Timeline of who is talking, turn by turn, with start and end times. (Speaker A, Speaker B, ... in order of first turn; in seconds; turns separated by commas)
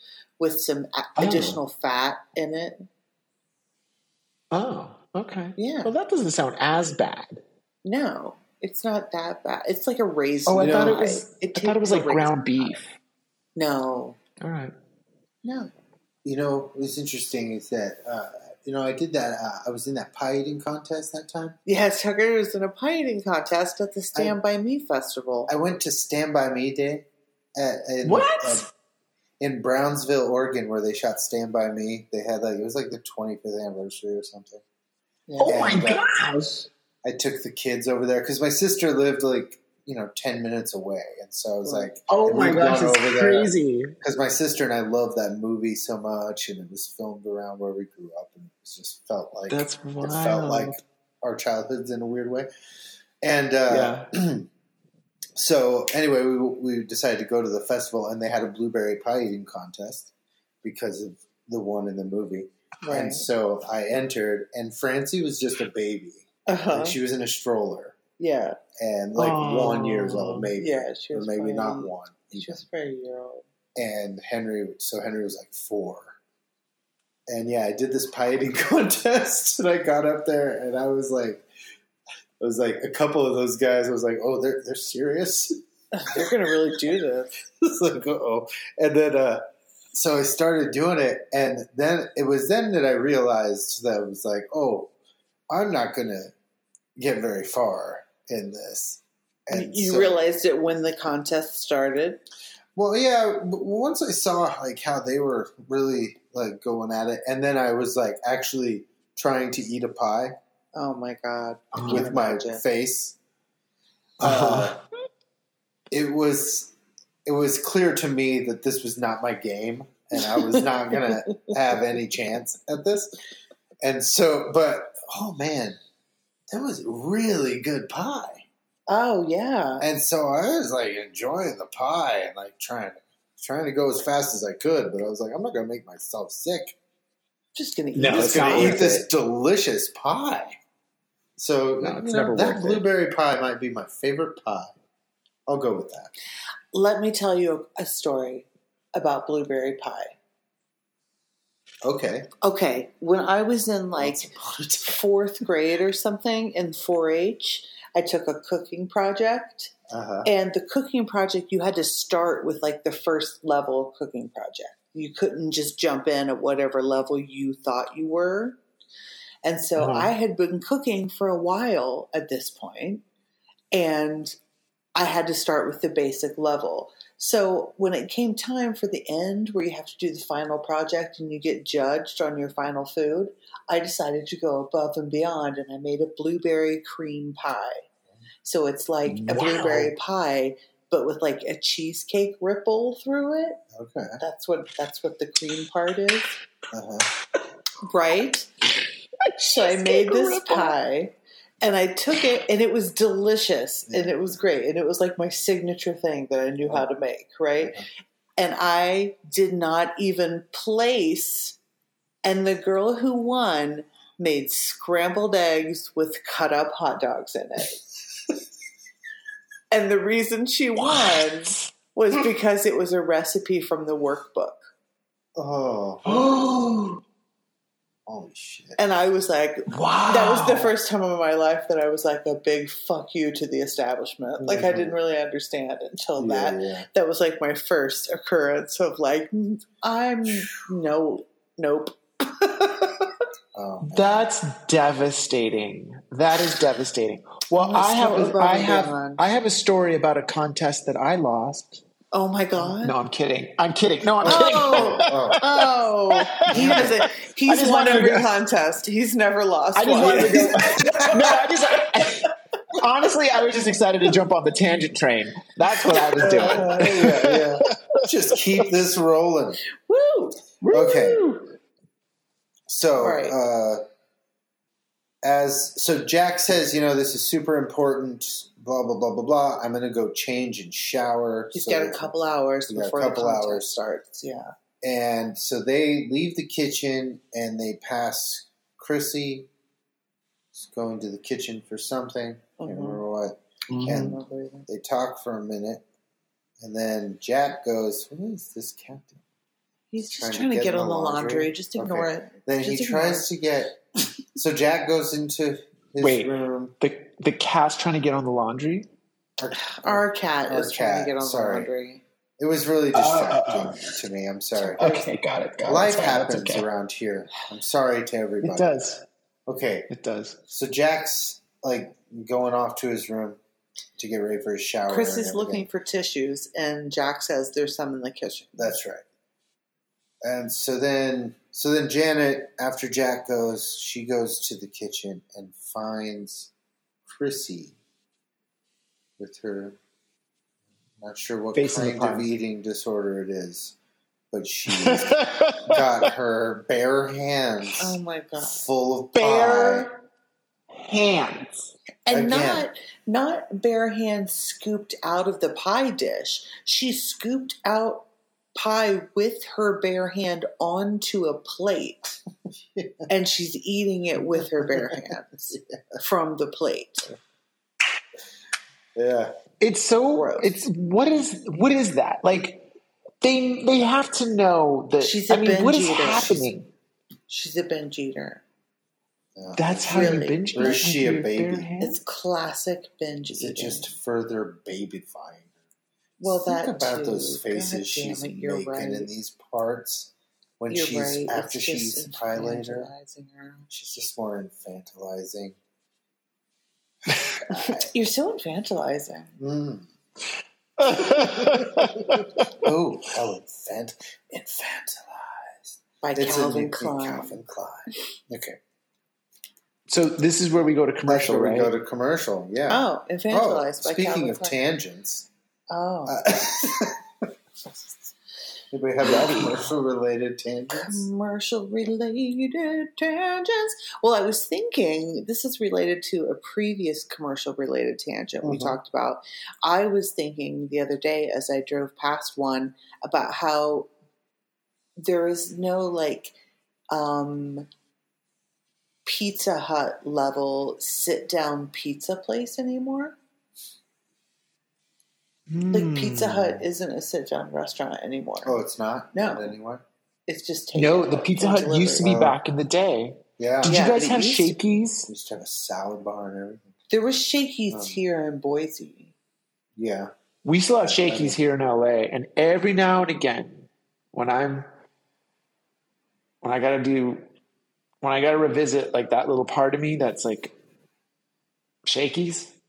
Speaker A: 0.4-2.9, Speaker B: 1.2-1.6, Speaker B: 4.5-7.4, Speaker A: 5.6-5.9, Speaker A: 7.8-12.7, Speaker B: 10.4-12.9, Speaker C: 10.6-10.9, Speaker A: 13.6-14.2, Speaker B: 14.4-14.7, Speaker A: 15.4-15.7, Speaker C: 16.2-21.6, Speaker A: 21.6-25.5, Speaker C: 25.5-28.7, Speaker B: 28.0-28.7, Speaker C: 29.4-34.6, Speaker A: 35.3-35.6, Speaker B: 35.4-36.7, Speaker C: 35.4-36.0, Speaker C: 37.0-52.5, Speaker A: 41.6-41.9, Speaker B: 42.1-43.9, Speaker B: 49.5-50.8, Speaker C: 53.2-54.5, Speaker B: 53.7-54.1, Speaker C: 55.4-60.1, Speaker C: 60.6-68.0, Speaker A: 62.8-63.3, Speaker A: 66.5-67.0, Speaker A: 68.2-68.6, Speaker C: 68.8-72.6, Speaker B: 69.2-70.5, Speaker A: 70.6-73.4, Speaker C: 73.8-76.2, Speaker C: 77.3-81.5, Speaker C: 82.4-85.6, Speaker A: 85.9-87.3, Speaker C: 87.6-94.9, Speaker C: 95.5-96.3, Speaker C: 97.0-100.2, Speaker A: 99.5-102.2, Speaker C: 102.7-110.3, Speaker A: 110.7-112.6, Speaker B: 111.7-112.1, Speaker C: 111.9-113.2, Speaker B: 114.2-114.8, Speaker C: 114.2-114.8, Speaker C: 115.9-116.7, Speaker C: 117.2-123.1, Speaker C: 123.8-125.8, Speaker C: 126.5-128.4, Speaker A: 128.9-129.8, Speaker C: 129.8-136.8, Speaker A: 137.5-138.9, Speaker B: 137.9-139.0, Speaker C: 138.1-140.6, Speaker C: 141.4-144.7, Speaker B: 141.8-142.8, Speaker C: 145.5-146.1, Speaker A: 146.7-150.2, Speaker C: 151.8-152.3, Speaker A: 152.4-154.3, Speaker C: 154.0-155.0, Speaker A: 154.8-159.7, Speaker C: 159.9-160.3, Speaker A: 160.2-168.6, Speaker A: 169.4-173.0, Speaker B: 169.8-170.1, Speaker A: 173.7-174.3, Speaker A: 174.9-187.8, Speaker A: 188.4-193.6, Speaker B: 189.1-189.9, Speaker C: 193.7-194.2, Speaker A: 194.2-196.3, Speaker C: 196.7-197.1, Speaker A: 197.8-198.5, Speaker B: 199.2-200.8, Speaker A: 199.5-207.8, Speaker C: 203.9-204.4, Speaker C: 207.6-207.8, Speaker A: 208.4-211.6, Speaker A: 212.2-217.8, Speaker A: 219.7-224.6, Speaker B: 220.8-221.7, Speaker C: 225.3-226.4, Speaker B: 226.1-227.0, Speaker C: 228.1-228.8, Speaker A: 228.8-243.1, Speaker B: 229.7-230.7, Speaker C: 234.4-235.0, Speaker C: 236.2-236.9, Speaker C: 243.5-244.3, Speaker B: 243.8-251.8, Speaker A: 247.6-249.2, Speaker A: 252.1-252.9, Speaker B: 252.8-258.3, Speaker C: 254.2-255.4, Speaker A: 254.2-261.5, Speaker C: 256.5-257.0, Speaker B: 259.8-268.0, Speaker C: 266.1-269.6, Speaker A: 266.2-267.0, Speaker A: 269.7-270.4, Speaker B: 270.6-271.4, Speaker C: 270.7-271.2, Speaker C: 272.7-273.8, Speaker A: 273.0-273.4, Speaker C: 275.2-282.1, Speaker A: 281.5-284.5, Speaker C: 282.7-283.7, Speaker C: 284.8-289.5, Speaker C: 290.5-295.8, Speaker A: 292.6-293.0, Speaker B: 293.7-294.1, Speaker A: 293.8-294.6, Speaker C: 296.6-299.2, Speaker A: 299.9-303.3, Speaker C: 300.1-303.8, Speaker C: 304.3-306.8, Speaker B: 306.0-308.9, Speaker C: 309.4-311.7, Speaker A: 309.6-312.0, Speaker C: 312.4-314.9, Speaker B: 312.9-314.0, Speaker B: 314.7-316.7, Speaker A: 314.8-315.1, Speaker C: 315.6-318.9, Speaker B: 318.4-319.0, Speaker C: 319.5-319.9, Speaker B: 319.9-320.4, Speaker C: 320.5-323.4, Speaker C: 324.0-325.7, Speaker A: 324.9-328.7, Speaker C: 328.5-329.0, Speaker C: 330.2-336.5, Speaker C: 337.1-337.8, Speaker C: 339.2-339.8, Speaker C: 341.0-343.8, Speaker B: 341.5-342.3, Speaker C: 344.3-349.9, Speaker B: 344.7-345.8, Speaker A: 347.8-348.6, Speaker B: 349.1-349.9, Speaker B: 350.7-351.7, Speaker A: 352.1-362.2, Speaker C: 352.1-352.7, Speaker C: 362.7-363.1, Speaker A: 363.1-367.1, Speaker C: 364.6-364.9, Speaker C: 368.9-369.3, Speaker B: 369.6-372.7, Speaker A: 370.1-370.6, Speaker B: 373.2-376.7, Speaker A: 375.0-376.5, Speaker A: 377.3-378.4, Speaker C: 379.4-381.7, Speaker B: 379.6-382.0, Speaker A: 379.9-380.8, Speaker A: 381.8-383.9, Speaker C: 383.3-385.5, Speaker A: 386.2-389.1, Speaker C: 386.2-392.9, Speaker A: 390.7-393.7, Speaker C: 393.7-395.6, Speaker C: 397.2-397.9, Speaker A: 397.5-399.3, Speaker C: 399.4-399.9, Speaker C: 400.8-408.6, Speaker B: 400.8-402.5, Speaker A: 406.0-407.4, Speaker B: 409.9-411.7, Speaker C: 411.1-415.3, Speaker A: 412.7-414.6, Speaker A: 415.7-416.2, Speaker C: 416.1-417.9, Speaker C: 418.7-421.1, Speaker B: 419.0-419.7, Speaker A: 420.7-433.9, Speaker C: 428.4-428.8, Speaker A: 435.0-436.3, Speaker A: 436.9-437.7, Speaker A: 439.0-443.1, Speaker B: 445.5-446.6, Speaker A: 445.7-448.6, Speaker C: 448.4-449.8, Speaker A: 449.1-449.5, Speaker A: 450.3-452.1, Speaker B: 450.7-455.1, Speaker C: 452.0-452.4, Speaker C: 453.4-453.8, Speaker A: 453.6-454.6, Speaker C: 455.1-456.7, Speaker A: 456.9-459.1, Speaker C: 457.7-458.0, Speaker C: 459.8-460.1, Speaker B: 460.4-464.7, Speaker C: 460.8-461.4, Speaker B: 466.4-467.2, Speaker B: 468.0-470.5, Speaker B: 471.8-472.5